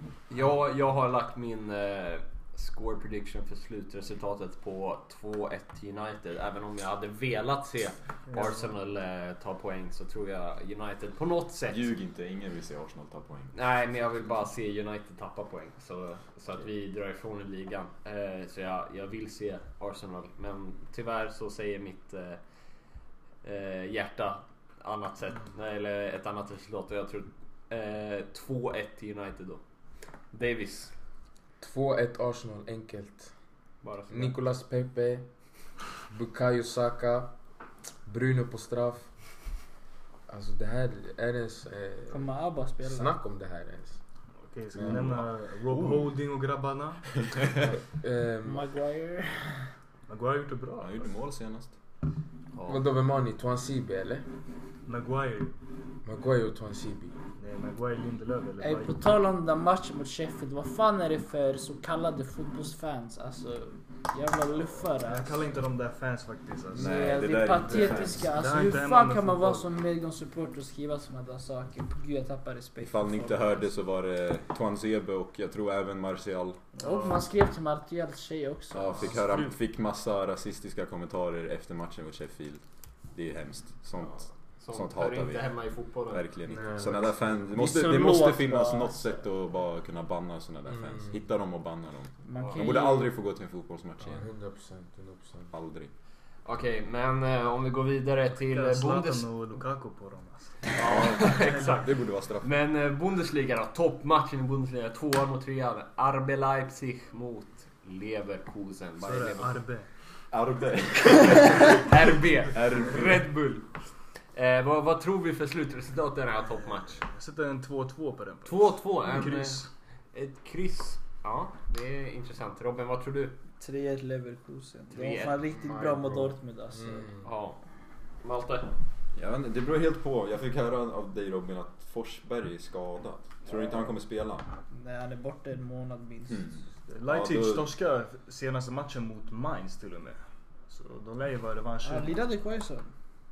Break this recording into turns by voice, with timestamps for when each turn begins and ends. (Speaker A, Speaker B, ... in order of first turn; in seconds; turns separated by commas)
Speaker A: 0.3-11.9, Speaker B: 8.3-8.7, Speaker C: 11.7-13.5, Speaker A: 13.5-22.4, Speaker A: 23.4-29.6, Speaker A: 30.3-30.9, Speaker D: 31.6-33.3, Speaker A: 33.8-34.4, Speaker D: 34.1-35.3, Speaker D: 36.1-37.3, Speaker D: 38.0-39.1, Speaker D: 40.3-42.3, Speaker E: 42.1-43.1, Speaker D: 42.8-44.0, Speaker B: 44.4-47.1, Speaker D: 44.7-45.2, Speaker C: 44.8-46.1, Speaker D: 47.9-48.7, Speaker E: 48.5-49.7, Speaker B: 50.1-51.1, Speaker C: 50.8-51.7, Speaker D: 52.6-54.2, Speaker B: 54.9-55.5, Speaker D: 56.0-57.1, Speaker B: 57.4-59.0, Speaker E: 58.6-65.4, Speaker B: 65.0-67.1, Speaker E: 66.7-73.7, Speaker C: 66.7-68.3, Speaker B: 67.7-69.7, Speaker C: 72.8-76.6, Speaker B: 76.7-77.2, Speaker E: 76.8-79.2, Speaker C: 78.7-85.5, Speaker B: 79.1-79.5, Speaker A: 84.0-86.3, Speaker C: 86.1-94.3, Speaker D: 86.5-87.4, Speaker E: 87.5-89.2, Speaker D: 90.7-91.2, Speaker E: 92.2-93.1, Speaker A: 92.4-92.8, Speaker D: 94.0-95.5, Speaker C: 95.5-95.9, Speaker A: 96.4-99.3, Speaker B: 98.4-100.8, Speaker A: 100.7-109.6, Speaker C: 100.8-102.5, Speaker B: 101.3-101.8, Speaker B: 109.0-109.9, Speaker C: 110.3-111.8, Speaker A: 111.2-117.0, Speaker C: 112.5-113.2, Speaker B: 117.0-119.7, Speaker A: 118.4-123.4, Speaker E: 123.6-127.1, Speaker A: 124.9-125.4, Speaker D: 125.5-127.3, Speaker A: 127.2-127.6, Speaker A: 128.2-128.7, Speaker C: 129.1-134.5, Speaker E: 134.7-136.6, Speaker C: 136.3-137.7, Speaker B: 136.8-142.2, Speaker E: 141.8-142.9